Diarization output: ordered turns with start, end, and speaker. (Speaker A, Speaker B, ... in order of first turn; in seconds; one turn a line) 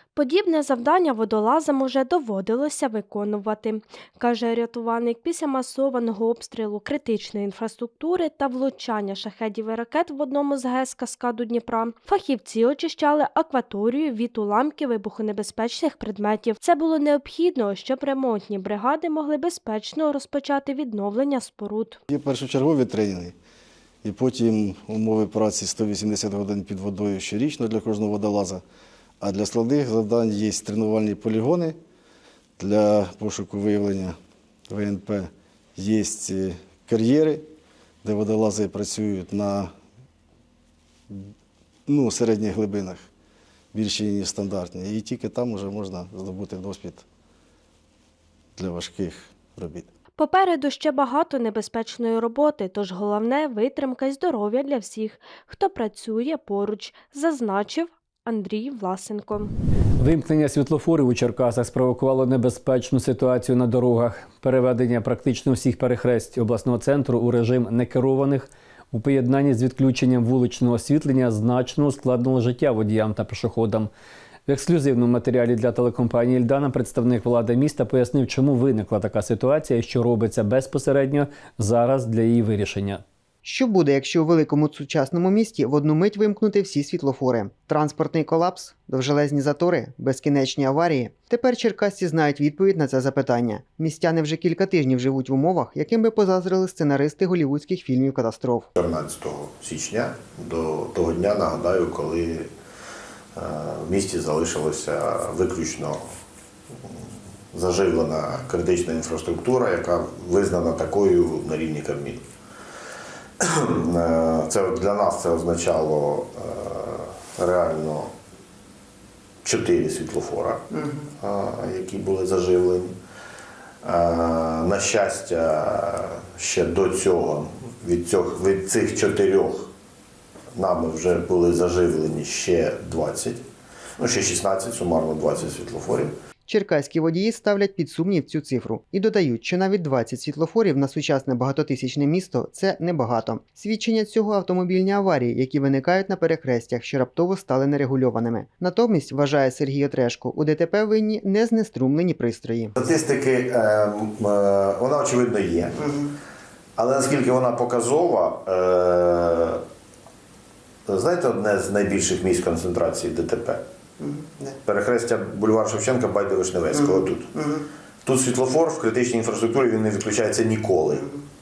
Speaker A: 0.1-22.0
Speaker B: 22.1-23.3
Speaker B: 24.0-28.6
Speaker B: 29.2-31.8
Speaker B: 32.6-34.2
Speaker B: 34.7-37.5
Speaker B: 38.0-39.7
Speaker B: 41.9-43.1
Speaker B: 43.7-47.1
Speaker B: 48.6-49.9
Speaker A: 50.2-59.5
Speaker C: 60.0-73.9
Speaker C: 74.5-83.0
Speaker D: 83.4-98.7
Speaker E: 98.8-102.5
Speaker E: 103.3-106.1
Speaker E: 107.5-112.2
Speaker E: 113.4-118.1
Speaker E: 119.4-120.7
Speaker E: 121.2-123.0
Speaker E: 123.8-129.7
Speaker E: 130.5-133.4
Speaker E: 134.0-136.2
Speaker D: 136.5-152.7
Speaker E: 152.8-155.9
Speaker E: 156.8-159.6
Speaker E: 160.9-163.6
Speaker D: 164.0-164.5
Speaker E: 164.7-167.4
Speaker E: 168.0-171.1